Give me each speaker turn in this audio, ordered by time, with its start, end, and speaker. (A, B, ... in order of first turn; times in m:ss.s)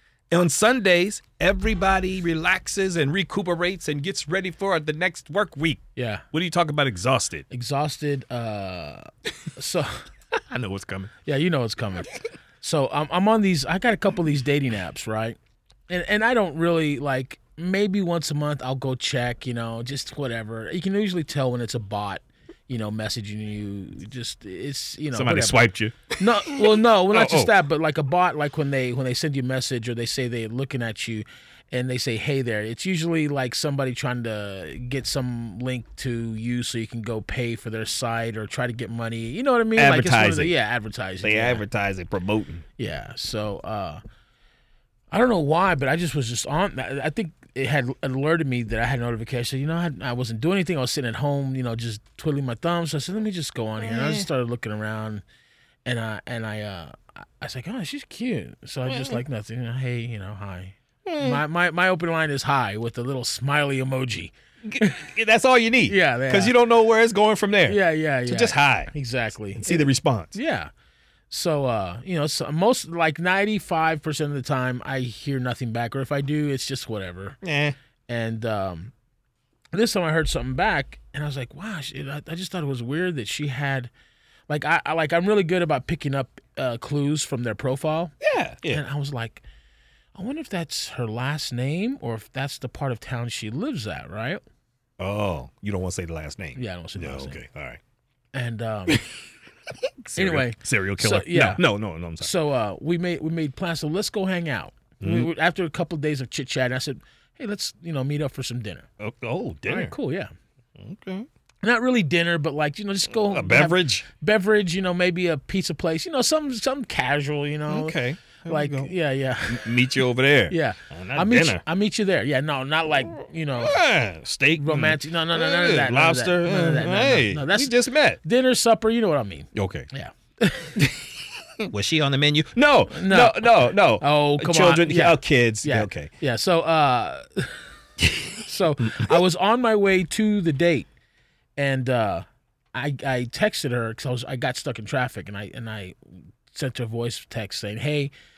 0:00.3-0:07.5 A
0:06.0-0:06.2 B
0:07.5-0:10.1 B
0:10.3-0:11.1 A
0:11.2-0:15.4 B
0:15.9-0:25.6 B
0:25.1-0:27.5 A
0:26.2-0:41.6 B
0:39.8-0:40.5 A
0:41.2-0:42.7 A
0:42.8-0:44.0 B
0:45.1-0:55.2 B
0:53.8-0:54.3 A
0:55.8-1:05.1 B
0:58.9-0:59.2 A
1:01.0-1:01.4 A
1:04.6-1:08.9 A
1:05.9-1:06.6 B
1:07.7-1:10.7 B
1:09.5-1:10.4 A
1:11.3-1:17.4 B
1:17.4-1:17.8 A
1:18.1-1:18.9 B
1:19.7-1:23.9 B
1:24.5-1:28.1 B
1:28.2-1:28.8 A
1:28.6-1:29.4 B
1:30.2-1:34.4 B
1:35.0-1:37.8 A
1:36.6-1:37.4 B
1:38.3-1:39.0 B
1:40.0-1:42.3 A
1:40.2-1:41.6 B
1:42.2-1:48.9 B
1:45.0-1:45.3 A
1:49.0-1:50.0 A
1:49.7-1:50.3 B
1:50.8-1:51.3 A
1:51.6-2:03.8 B
1:53.2-1:54.1 A
1:57.7-1:58.9 A
1:59.5-2:01.6 A
2:03.6-2:08.2 A
2:04.6-2:10.9 B
2:09.6-2:09.9 A
2:10.8-2:16.1 A
2:12.9-2:17.6 B
2:18.0-2:18.3 A
2:18.4-2:20.9 B
2:18.8-2:19.2 A
2:21.6-2:28.1 B